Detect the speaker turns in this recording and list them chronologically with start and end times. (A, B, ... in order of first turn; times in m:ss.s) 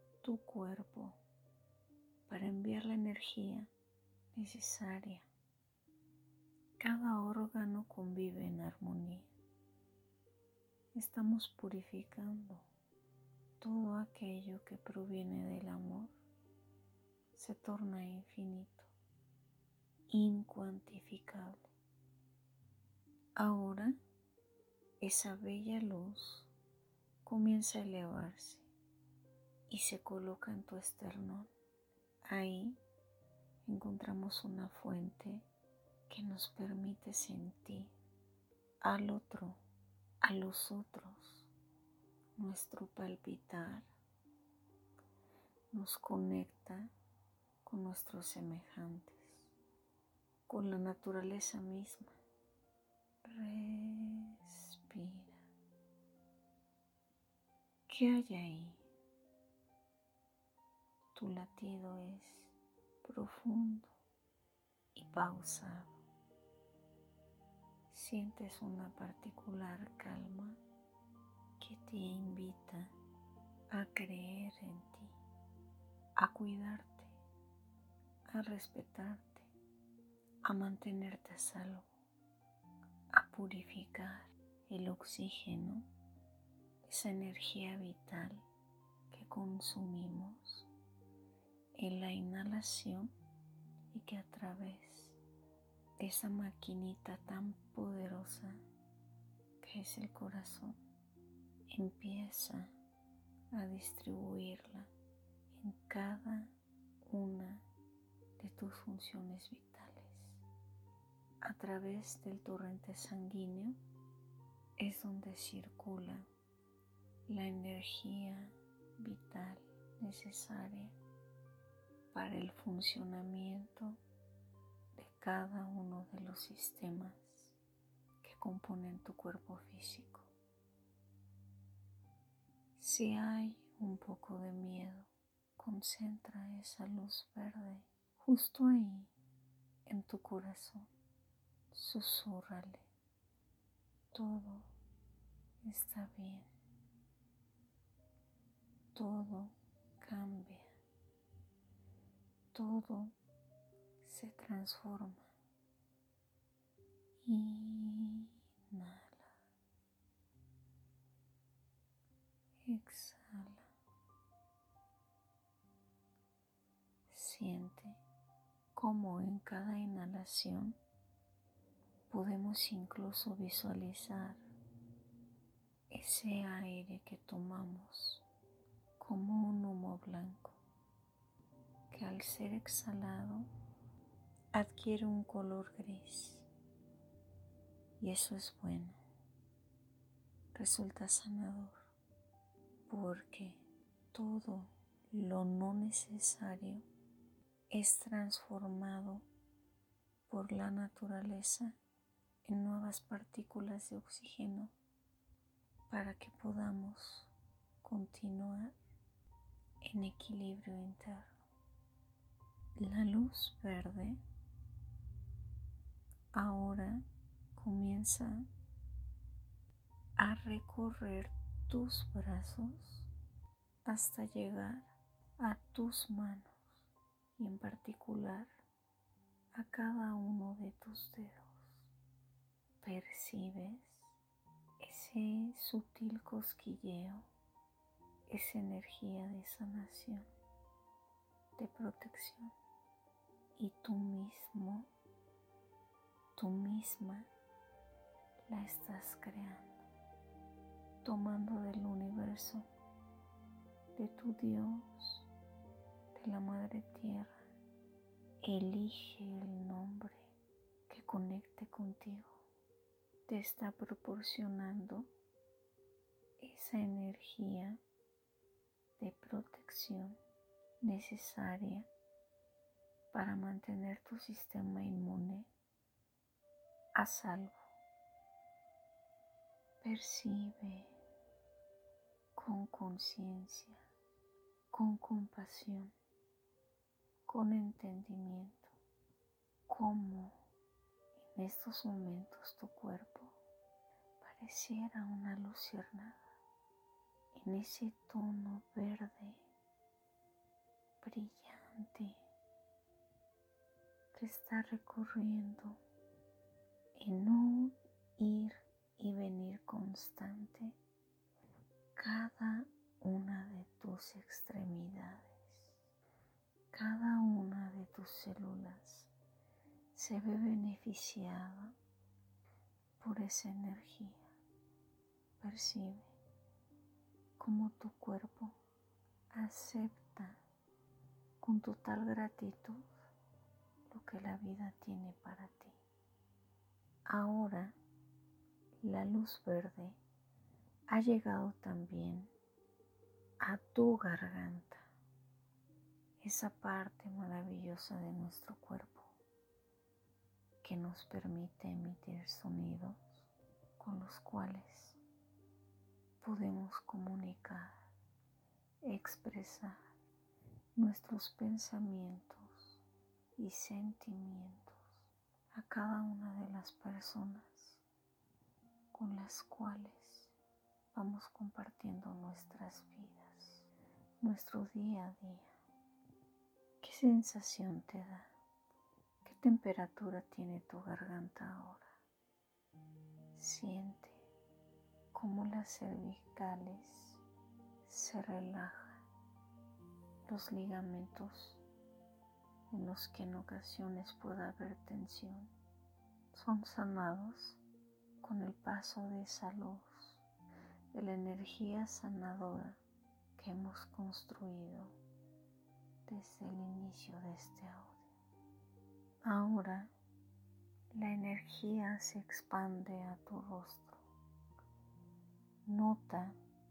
0:00.2-0:01.2 A
0:02.3-0:03.7 A
0:04.3-0:05.3 A
0:06.8-0:09.3 A
0:10.9-0:12.7 A
0:13.6-0:16.2 A
0:17.4-0:18.9 A
0:20.1-0:21.7 A
0:23.4-0:24.0 A
0:25.0-0:26.5 A
0:27.2-0:28.7 A
0:29.7-0:31.5 A
0:32.3-0:32.8 A
0:33.6-0:35.5 A
0:36.1-0:37.9 A
0:38.8-0:39.6 A
0:40.2-0:41.5 A
0:42.4-0:43.9 A
0:45.7-0:46.9 A
0:47.6-0:49.5 A
0:50.5-0:52.2 A
0:53.2-0:55.5 A
0:57.9-0:58.9 A
1:01.2-1:04.0 A
1:05.0-1:06.0 A
1:07.9-1:10.6 A
1:11.6-1:12.9 A
1:13.7-1:15.2 A
1:16.2-1:17.2 A
1:18.3-1:19.5 A
1:20.4-1:21.9 A
1:23.1-1:25.9 A
1:26.8-1:28.4 A
1:29.1-1:30.7 A
1:31.8-1:33.1 A
1:33.9-1:35.2 A
1:36.0-1:38.6 A
1:39.6-1:40.8 A
1:41.7-1:42.8 A
1:43.5-1:44.9 A
1:45.5-1:47.6 A
1:48.4-1:50.4 A
1:51.4-1:53.8 A
1:54.8-1:56.3 A
1:57.3-2:01.0 A
2:02.1-2:04.0 A
2:05.0-2:07.6 A
2:08.2-2:10.3 A
2:12.8-2:19.1 A
2:19.9-2:20.9 A
2:21.7-2:22.9 A
2:24.1-2:24.7 A
2:25.6-2:26.5 A
2:28.9-2:30.7 A
2:32.5-2:33.2 A
2:34.0-2:35.3 A
2:37.2-2:39.4 A
2:42.6-2:43.7 A
2:47.1-2:48.0 A
2:48.8-2:50.8 A
2:52.1-2:54.4 A
2:55.9-2:58.2 A
2:59.0-3:00.6 A
3:01.9-3:03.5 A
3:04.5-3:06.5 A
3:08.0-3:09.0 A
3:10.5-3:11.9 A
3:12.9-3:16.9 A
3:17.7-3:19.3 A
3:20.3-3:21.8 A
3:22.4-3:24.7 A
3:25.9-3:28.8 A
3:29.8-3:31.4 A
3:32.8-3:34.2 A
3:36.3-3:37.0 A
3:37.6-3:38.5 A
3:40.2-3:43.1 A
3:43.9-3:48.6 A
3:49.5-3:51.9 A
3:52.8-3:54.2 A
3:54.8-3:57.3 A
3:58.3-4:00.3 A
4:01.6-4:02.5 A
4:03.6-4:04.9 A
4:06.4-4:07.3 A
4:08.5-4:09.9 A
4:11.0-4:12.7 A
4:14.0-4:15.3 A
4:16.1-4:17.5 A
4:18.4-4:20.3 A
4:20.9-4:22.4 A
4:23.3-4:25.1 A
4:26.4-4:27.8 A
4:29.0-4:30.2 A
4:30.8-4:31.9 A
4:33.1-4:35.5 A
4:37.0-4:37.6 A
4:39.8-4:41.0 A
4:42.4-4:43.9 A
4:44.7-4:45.9 A
4:47.3-4:48.8 A
4:49.7-4:50.4 A
4:51.2-4:53.4 A
4:54.2-4:56.3 A
4:57.3-4:59.5 A
5:01.0-5:02.2 A
5:04.1-5:05.8 A
5:07.0-5:10.8 A
5:12.0-5:15.8 A
5:16.7-5:19.1 A
5:19.9-5:21.8 A
5:23.0-5:24.3 A
5:25.4-5:26.1 A
5:27.4-5:28.6 A
5:29.3-5:30.4 A
5:31.4-5:32.9 A
5:33.9-5:35.8 A
5:37.1-5:37.8 A
5:38.8-5:40.0 A
5:40.9-5:42.3 A
5:43.4-5:44.9 A
5:46.2-5:49.2 A
5:50.6-5:55.0 A
5:56.2-5:57.9 A
5:58.8-5:59.8 A
6:00.8-6:02.8 A
6:03.4-6:07.8 A
6:08.9-6:10.3 A
6:10.9-6:13.7 A
6:14.2-6:15.5 A
6:16.8-6:18.3 A
6:19.2-6:22.0 A
6:23.4-6:24.3 A
6:25.1-6:27.2 A
6:27.8-6:29.0 A
6:30.3-6:31.6 A
6:32.7-6:35.5 A
6:36.3-6:37.6 A
6:38.2-6:40.2 A
6:40.9-6:42.8 A
6:43.4-6:45.0 A
6:46.1-6:48.1 A
6:49.2-6:49.9 A
6:51.0-6:54.0 A
6:55.7-6:56.4 A